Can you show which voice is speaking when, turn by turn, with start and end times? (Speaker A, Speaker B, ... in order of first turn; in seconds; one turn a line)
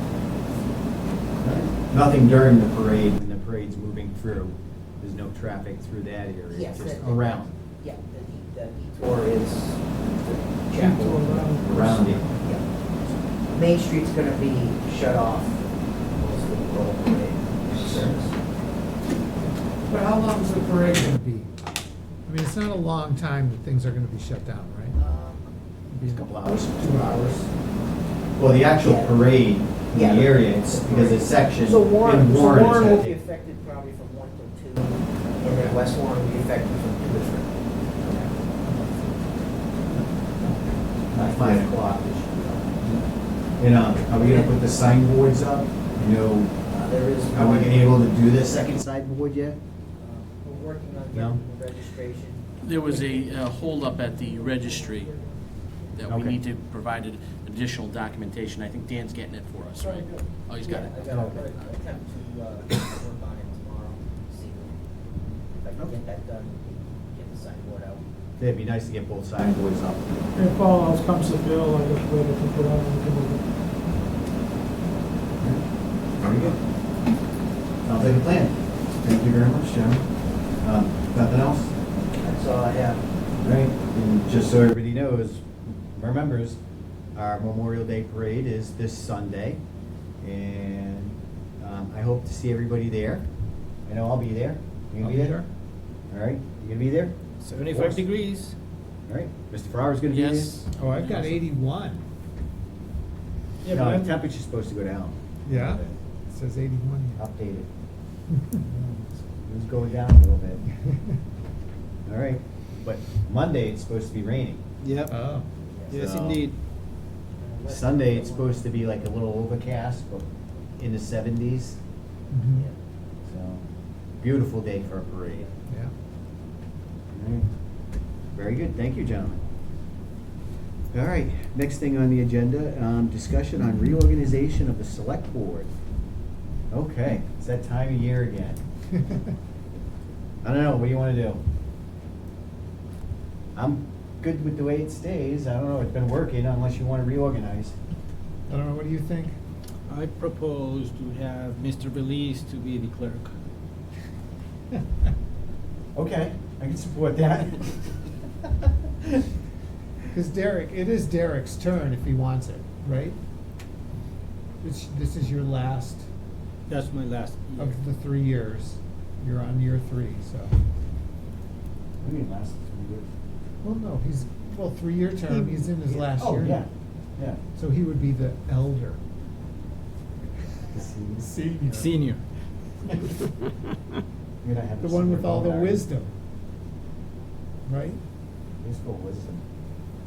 Speaker A: 1.4-7.5
Speaker B: 6.5-12.6
Speaker C: 10.8-11.6
Speaker A: 11.6-12.2
Speaker B: 13.5-15.6
Speaker B: 16.1-18.3
Speaker A: 17.7-18.1
Speaker D: 19.9-21.5
Speaker D: 22.2-25.0
Speaker B: 24.9-25.5
Speaker D: 25.9-27.4
Speaker A: 26.1-27.5
Speaker A: 28.4-33.2
Speaker B: 28.8-29.2
Speaker B: 29.9-38.3
Speaker D: 35.5-35.8
Speaker D: 38.2-39.1
Speaker B: 41.1-41.8
Speaker A: 41.1-43.0
Speaker A: 43.6-46.5
Speaker B: 44.1-44.5
Speaker B: 46.7-48.2
Speaker A: 47.3-49.6
Speaker B: 50.0-53.3
Speaker A: 51.1-51.4
Speaker E: 52.6-55.2
Speaker B: 54.4-54.8
Speaker E: 55.9-61.1
Speaker A: 56.1-56.4
Speaker B: 59.8-64.8
Speaker A: 61.1-61.4
Speaker B: 65.5-68.0
Speaker A: 68.4-70.2
Speaker C: 70.4-73.4
Speaker A: 76.2-76.6
Speaker A: 77.8-80.0
Speaker A: 80.6-81.7
Speaker B: 82.2-83.0
Speaker A: 83.4-86.6
Speaker A: 87.1-89.6
Speaker A: 90.2-93.2
Speaker A: 93.8-95.4
Speaker D: 95.0-95.5
Speaker A: 96.1-98.0
Speaker F: 97.4-98.5
Speaker A: 99.1-100.6
Speaker E: 100.1-101.4
Speaker D: 100.8-102.0
Speaker F: 103.6-104.1
Speaker A: 103.7-105.9
Speaker D: 105.4-107.2
Speaker A: 107.2-107.7
Speaker A: 109.3-110.7
Speaker A: 112.0-114.6
Speaker F: 114.8-115.2
Speaker D: 115.1-115.5
Speaker B: 115.7-116.0
Speaker A: 115.9-116.5
Speaker F: 115.9-116.5
Speaker B: 117.3-118.7
Speaker A: 117.7-121.8
Speaker D: 122.3-122.7
Speaker B: 122.5-122.8
Speaker A: 123.2-123.6
Speaker A: 124.2-125.5
Speaker B: 125.1-125.6
Speaker A: 127.1-127.5
Speaker A: 128.3-129.4
Speaker A: 130.9-135.7
Speaker A: 136.7-138.6
Speaker A: 140.4-141.4
Speaker A: 143.5-147.7
Speaker D: 148.5-149.3
Speaker F: 149.9-153.3
Speaker A: 155.9-159.2
Speaker D: 160.1-163.2
Speaker D: 164.6-166.1
Speaker F: 166.7-167.8
Speaker D: 167.6-170.5
Speaker A: 172.0-173.1
Speaker D: 173.6-176.6
Speaker A: 176.0-177.4
Speaker D: 177.6-179.0
Speaker A: 180.7-181.3
Speaker D: 181.2-181.9
Speaker F: 181.7-182.2
Speaker A: 184.4-185.8
Speaker D: 184.8-186.1
Speaker D: 187.7-188.0
Speaker A: 188.6-189.4